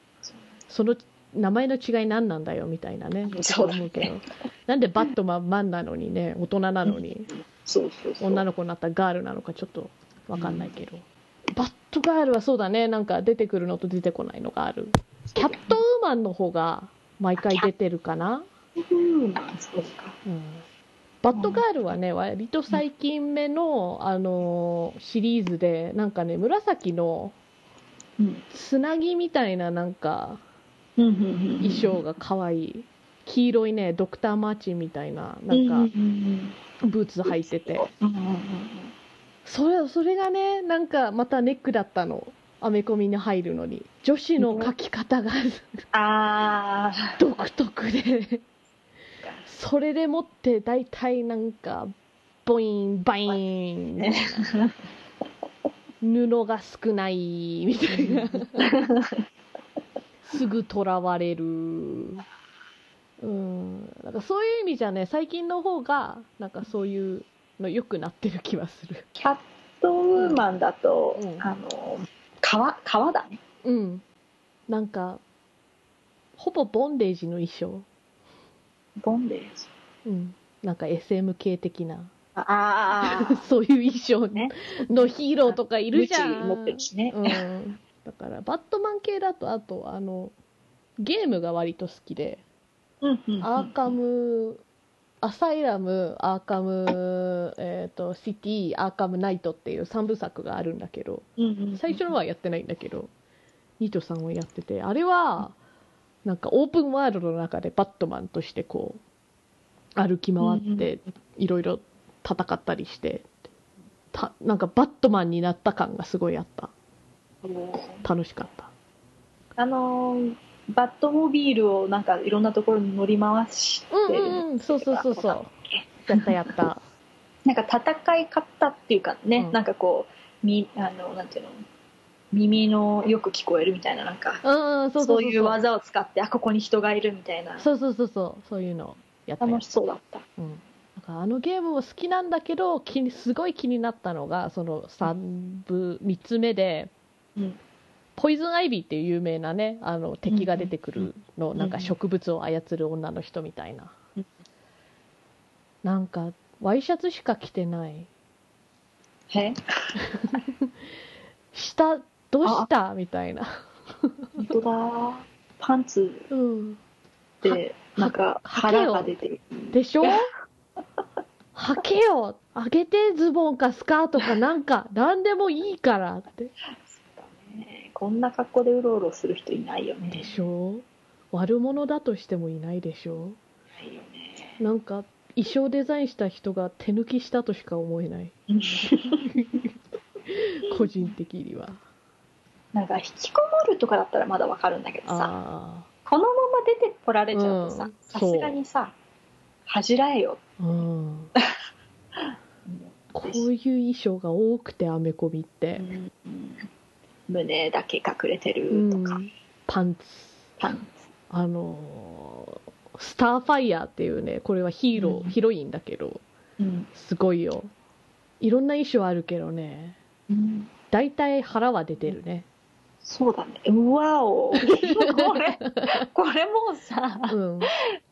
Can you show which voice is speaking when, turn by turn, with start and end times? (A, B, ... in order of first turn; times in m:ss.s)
0:00.7-0:07.3 A
0:03.3-0:04.1 B
0:06.9-0:08.4 B
0:08.2-0:18.5 A
0:10.4-0:10.7 B
0:15.3-0:15.8 B
0:17.4-0:17.7 B
0:18.8-0:20.2 B
0:20.2-0:20.6 A
0:21.2-0:27.4 A
0:21.4-0:21.6 B
0:28.2-0:28.4 B
0:28.5-0:30.4 A
0:31.0-0:32.0 B
0:31.6-0:35.9 A
0:35.5-0:36.6 B
0:36.8-0:37.9 A
0:37.2-0:38.9 B
0:39.4-0:45.8 A
0:44.4-0:44.7 B
0:45.9-0:47.2 B
0:47.2-0:48.4 A
0:49.5-0:51.9 A
0:52.4-0:54.5 A
0:54.0-0:54.8 B
0:56.0-0:58.7 A
0:57.9-0:59.2 B
1:00.3-1:02.2 A
1:03.2-1:09.1 A
1:09.2-1:13.4 B
1:10.2-1:10.4 A
1:11.2-1:11.4 A
1:13.6-1:14.0 A
1:14.7-1:15.2 A
1:16.4-1:17.9 A
1:19.0-1:19.7 B
1:20.0-1:22.1 A
1:22.4-1:23.5 B
1:23.0-1:30.3 A
1:24.3-1:27.4 B
1:31.0-1:32.4 A
1:33.0-1:33.9 B
1:33.4-1:34.6 A
1:35.2-1:43.1 A
1:41.4-1:42.1 B
1:43.8-1:45.6 A
1:46.2-1:49.0 A
1:50.0-1:53.3 A
1:50.4-1:50.9 B
1:54.1-1:56.7 A
1:57.4-1:58.0 B
1:58.0-1:58.7 A
1:59.6-2:06.6 B
2:03.9-2:05.5 A
2:06.0-2:06.8 A
2:07.5-2:11.6 B
2:12.3-2:14.4 B
2:14.4-2:15.6 A
2:15.0-2:17.7 B
2:17.6-2:19.6 A
2:19.4-2:20.3 B
2:20.4-2:26.9 A
2:28.2-2:34.0 A
2:30.3-2:31.9 B
2:35.8-2:38.1 A
2:39.3-2:40.0 B
2:40.1-2:40.7 A
2:41.5-2:43.5 A
2:44.0-2:44.5 A
2:44.4-2:46.3 B
2:46.3-2:46.8 A
2:47.4-2:49.1 A
2:47.4-2:50.1 B
2:49.7-2:50.3 A
2:51.6-2:56.5 A
2:56.9-3:00.3 B
3:00.1-3:03.4 A
3:03.8-3:04.6 B
3:04.6-3:08.3 A
3:08.5-3:09.3 B
3:09.2-3:09.7 A
3:10.3-3:11.8 A
3:10.7-3:11.1 B
3:12.7-3:15.4 B
3:15.1-3:15.9 A
3:16.1-3:19.0 B
3:17.3-3:18.6 A
3:19.7-3:20.4 B
3:20.6-3:21.3 A
3:22.7-3:23.5 B
3:23.1-3:25.9 A
3:25.8-3:26.7 B
3:27.3-3:29.2 B
3:28.7-3:30.5 A
3:30.6-3:31.0 B
3:31.3-3:36.2 A
3:35.0-3:35.4 B
3:36.6-3:36.9 B
3:36.9-3:37.7 A
3:38.4-3:40.0 A
3:40.3-3:40.7 B
3:40.9-3:42.5 A
3:43.0-3:47.4 B
3:44.6-3:46.0 A
3:47.3-3:47.7 A